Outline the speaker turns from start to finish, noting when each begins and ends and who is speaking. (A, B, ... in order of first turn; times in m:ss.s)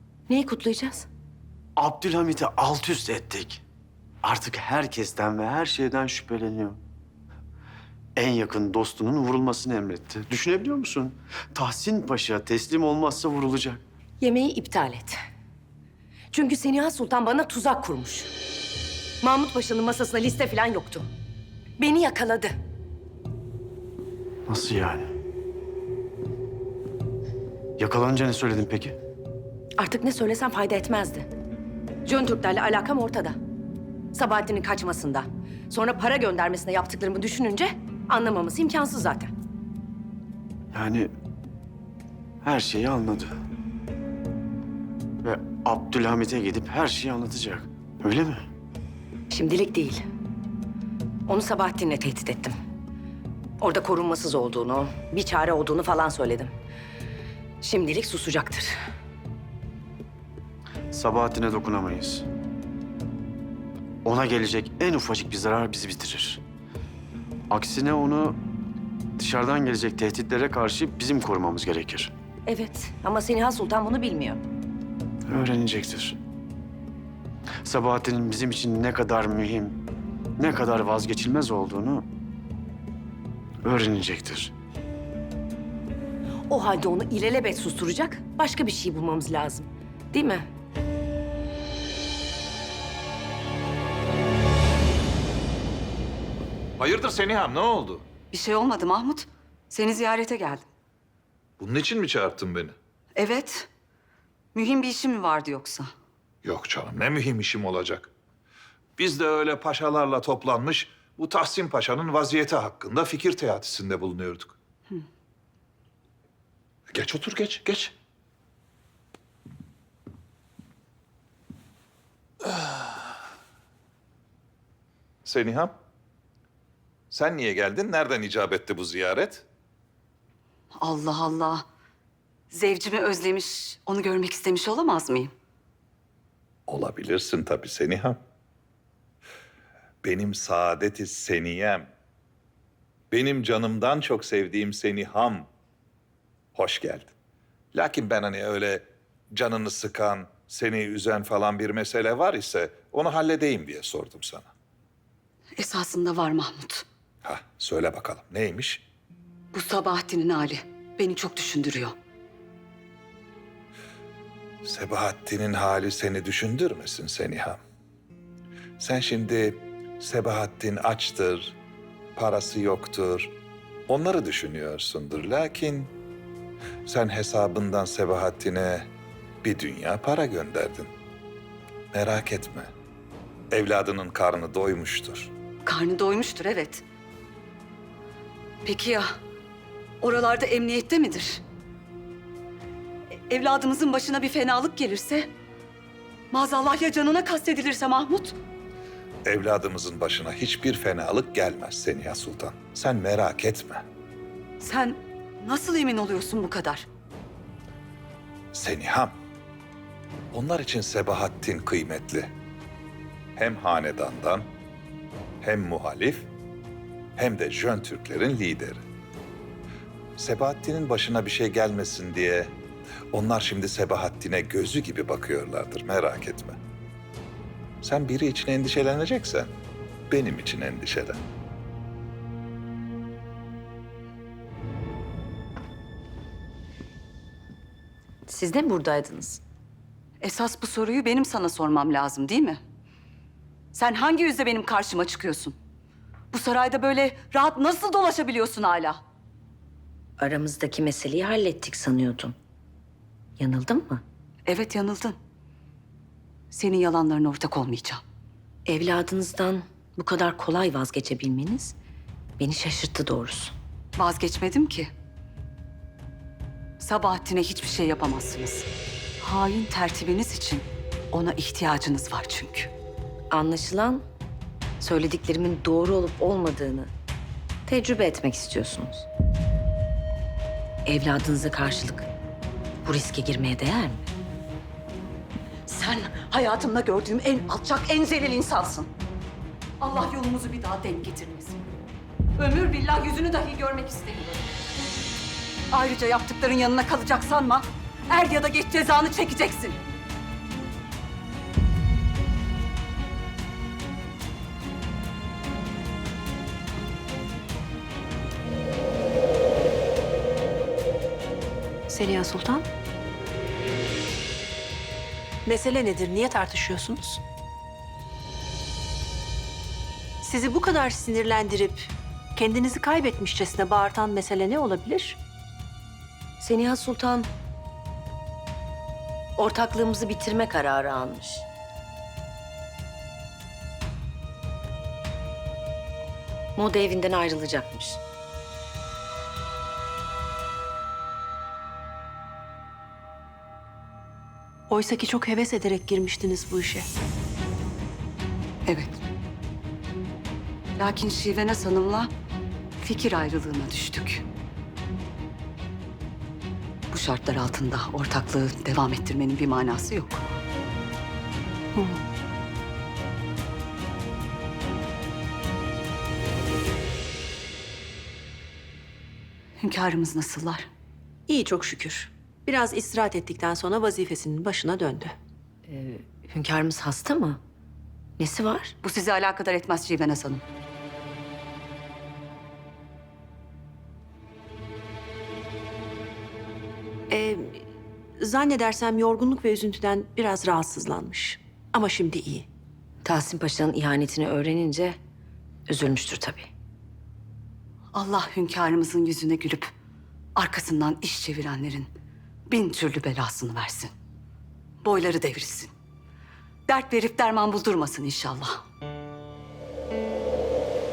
0:00.3-0:01.1 A
0:01.8-0:03.6 B
0:04.2-0:06.8 B
0:08.2-0:13.8 B
0:14.2-0:15.2 A
0:16.3-0:18.3 A
0:19.2-0:21.1 A
0:21.8-0:22.5 A
0:24.5-0:25.1 B
0:27.8-0:29.0 B
0:29.8-0:31.3 A
0:32.0-0:33.4 A
0:34.1-0:39.3 A
0:40.7-0:41.1 B
0:42.4-0:43.3 B
0:45.2-0:48.4 B
0:49.3-0:50.0 A
0:51.3-0:52.6 A
0:53.6-0:56.5 A
0:57.6-0:58.7 A
1:00.9-1:02.2 B
1:04.0-1:06.4 B
1:07.5-1:08.4 B
1:09.2-1:12.1 B
1:12.4-1:14.4 A
1:15.3-1:16.2 B
1:17.6-1:19.8 B
1:20.4-1:22.0 B
1:23.6-1:24.5 B
1:26.5-1:30.4 A
1:36.8-1:38.1 C
1:38.3-1:40.6 D
1:41.6-1:42.8 C
1:43.2-1:43.7 D
1:44.5-1:45.9 D
1:46.4-1:48.1 C
1:49.0-1:54.5 C
1:56.9-1:57.9 C
2:02.5-2:02.8 C
2:05.2-2:05.7 C
2:07.1-2:09.4 C
2:10.8-2:11.6 D
2:12.5-2:15.3 D
2:16.7-2:18.2 C
2:20.0-2:21.9 C
2:23.1-2:25.5 C
2:26.5-2:27.1 C
2:27.7-2:34.5 C
2:35.6-2:36.8 D
2:37.2-2:38.8 C
2:39.5-2:41.9 D
2:44.6-2:47.6 C
2:48.8-2:51.6 C
2:52.2-2:53.3 C
2:53.9-2:55.9 C
2:56.8-2:58.9 C
2:59.4-3:00.9 C
3:01.9-3:02.7 C
3:03.5-3:05.3 C
3:05.6-3:06.8 D
3:08.6-3:09.1 D
3:10.0-3:11.4 D
3:13.3-3:15.3 D
3:16.3-3:18.4 D
3:19.2-3:23.8 C
3:24.6-3:26.9 D
3:28.5-3:29.1 C
3:30.3-3:32.3 C
3:33.4-3:34.4 C
3:35.4-3:36.3 C
3:37.2-3:38.8 C
3:40.2-3:42.5 C
3:43.1-3:46.6 C
3:47.8-3:49.5 C
3:50.1-3:51.2 C
3:58.3-3:59.4 A
4:00.2-4:02.6 D
4:03.7-4:05.5 D
4:06.3-4:09.0 D
4:10.2-4:12.3 A
4:13.4-4:14.0 A
4:14.4-4:15.2 D
4:16.5-4:18.0 D
4:18.6-4:21.8 A
4:22.4-4:23.5 A
4:24.0-4:24.9 D
4:26.8-4:28.7 D
4:29.2-4:32.7 D
4:33.3-4:34.0 A
4:34.8-4:36.9 A
4:37.6-4:39.0 A
4:40.8-4:42.1 A
4:42.8-4:44.1 A
4:45.6-4:48.9 D
4:49.8-4:51.6 D
4:52.4-4:54.5 D
4:55.7-4:59.8 D
5:11.9-5:12.6 E
5:15.4-5:17.2 E
5:20.2-5:25.2 E
5:26.4-5:27.3 A
5:29.4-5:31.4 A
5:36.6-5:38.0 A
5:44.7-5:46.9 E
5:48.6-5:49.0 D
5:50.8-5:52.1 D
5:52.8-5:54.2 D
5:56.9-6:00.2 D
6:09.6-6:10.7 D
6:11.3-6:15.1 E
6:15.6-6:17.4 A
6:18.2-6:18.7 A
6:18.8-6:20.4 D
6:27.1-6:27.6 E
6:28.2-6:32.5 E
6:33.0-6:35.0 A
6:35.7-6:36.5 A
6:37.9-6:39.7 D
6:40.4-6:41.9 D
6:42.5-6:43.9 D
6:44.8-6:45.7 D
6:46.7-6:48.6 D